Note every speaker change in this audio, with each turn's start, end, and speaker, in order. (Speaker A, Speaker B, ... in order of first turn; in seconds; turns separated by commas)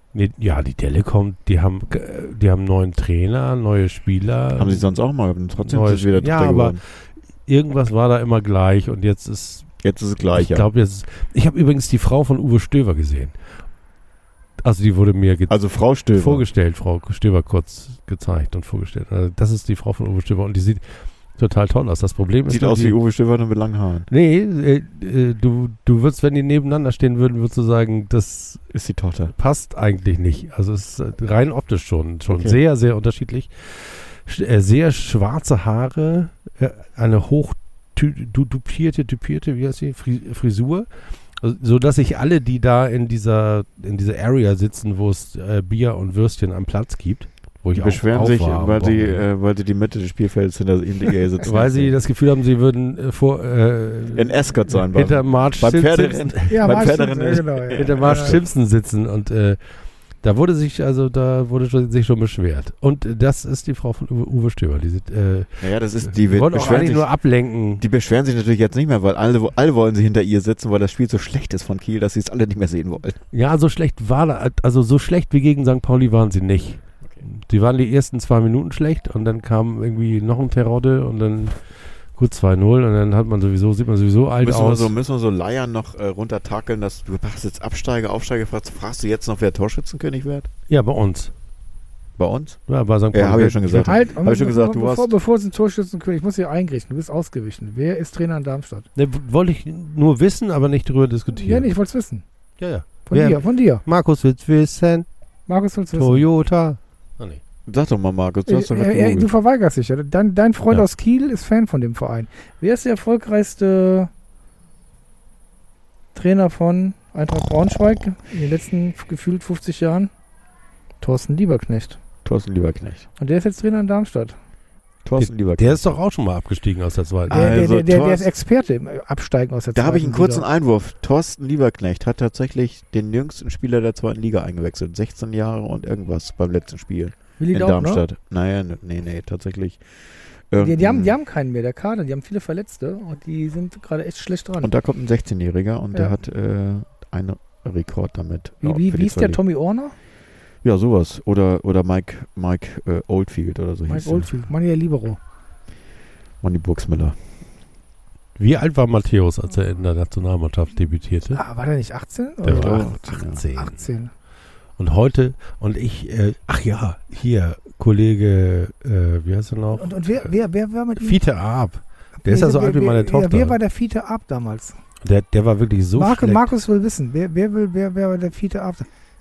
Speaker A: 0.1-4.9, Speaker B: 4.6-6.8, Speaker A: 5.6-6.8, Speaker A: 7.5-9.7, Speaker B: 9.8-10.7, Speaker A: 10.3-13.3, Speaker A: 14.6-15.6, Speaker B: 15.5-16.5, Speaker A: 16.1-20.8, Speaker A: 21.4-23.0, Speaker B: 22.5-24.1, Speaker A: 24.1-28.6, Speaker B: 28.7-29.3, Speaker A: 29.4-40.9, Speaker B: 32.3-32.6, Speaker A: 41.4-49.2, Speaker B: 47.7-51.9, Speaker A: 51.4-56.9, Speaker B: 54.1-58.4, Speaker C: 56.5-58.4, Speaker A: 57.7-59.6, Speaker A: 60.2-67.8, Speaker B: 65.6-67.1, Speaker B: 67.8-73.2, Speaker A: 73.3-81.6, Speaker A: 82.2-84.9, Speaker B: 84.4-90.5, Speaker A: 90.7-91.3, Speaker B: 92.2-92.6, Speaker A: 92.7-93.9, Speaker B: 93.1-95.1, Speaker C: 93.9-98.9, Speaker A: 99.0-101.7, Speaker C: 101.3-102.2, Speaker A: 102.6-105.1, Speaker C: 103.1-103.8, Speaker C: 105.5-106.3, Speaker A: 106.0-107.4, Speaker B: 107.7-109.3, Speaker C: 108.5-114.1, Speaker C: 116.2-120.1, Speaker C: 121.0-122.0, Speaker B: 122.2-123.1, Speaker C: 123.2-124.4, Speaker B: 125.0-126.0, Speaker A: 125.2-127.6, Speaker B: 127.3-128.3, Speaker C: 127.3-130.5, Speaker B: 129.8-139.8, Speaker C: 137.4-138.1, Speaker B: 140.5-141.2, Speaker C: 140.6-144.7, Speaker B: 144.6-149.4, Speaker C: 148.6-149.9, Speaker B: 150.6-154.3, Speaker C: 153.9-155.2, Speaker B: 156.4-157.2, Speaker A: 158.4-161.4, Speaker C: 161.3-164.1, Speaker A: 162.4-163.8, Speaker B: 162.5-163.4, Speaker A: 164.8-170.3, Speaker C: 169.7-171.2, Speaker A: 171.0-173.6, Speaker C: 172.2-174.8, Speaker A: 175.0-176.5, Speaker C: 176.0-178.9